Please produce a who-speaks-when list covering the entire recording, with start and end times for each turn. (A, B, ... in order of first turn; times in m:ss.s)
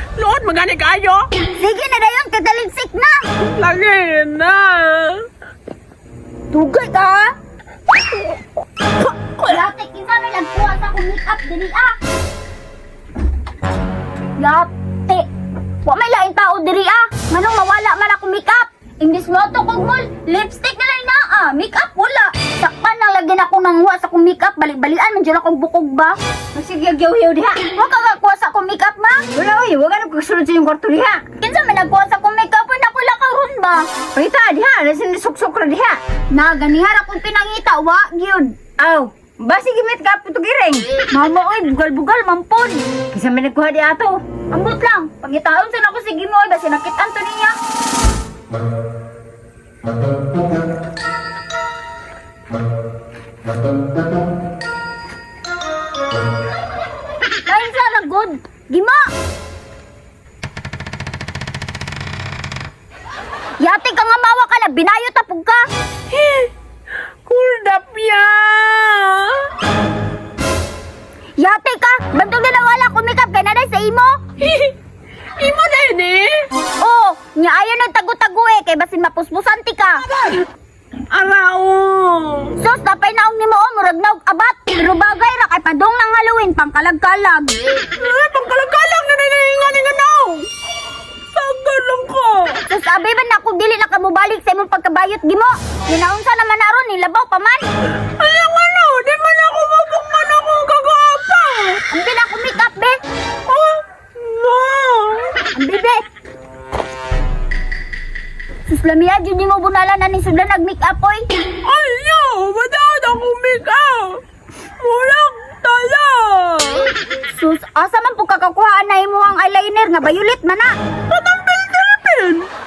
0:00.2-0:01.3 A
0:01.6-0:03.2 B
0:03.4-0:05.3 A
0:06.5-0:07.3 B
0:09.0-0:09.6 A
0:09.4-0:12.0 B
0:14.4-0:15.2 B
0:15.8-0:26.2 B
0:26.5-0:27.6 C
0:27.7-0:29.3 B
0:29.3-0:31.2 C
0:31.4-0:33.8 B
0:34.1-0:36.0 C
0:36.3-0:38.5 B
0:38.8-0:40.8 C
0:41.1-0:42.8 B
0:43.1-0:44.2 C
0:44.5-0:47.5 B
0:57.4-0:59.1 B
1:03.6-1:05.6 B
1:06.1-1:06.5 A
1:07.2-1:09.5 A
1:11.4-1:14.2 B
1:14.4-1:14.7 A
1:15.4-1:16.5 A
1:16.8-1:20.0 B
1:21.1-1:22.5 A
1:22.6-1:27.6 B
1:27.9-1:30.5 A
1:31.3-1:32.6 A
1:32.7-1:37.7 B
1:38.0-1:41.8 A
1:41.9-1:43.0 B
1:43.4-1:45.5 A
1:45.5-1:46.0 B
1:48.7-1:51.3 B
1:51.6-1:54.2 A
1:54.8-1:56.9 A
1:57.3-2:00.7 B
2:01.1-2:02.5 A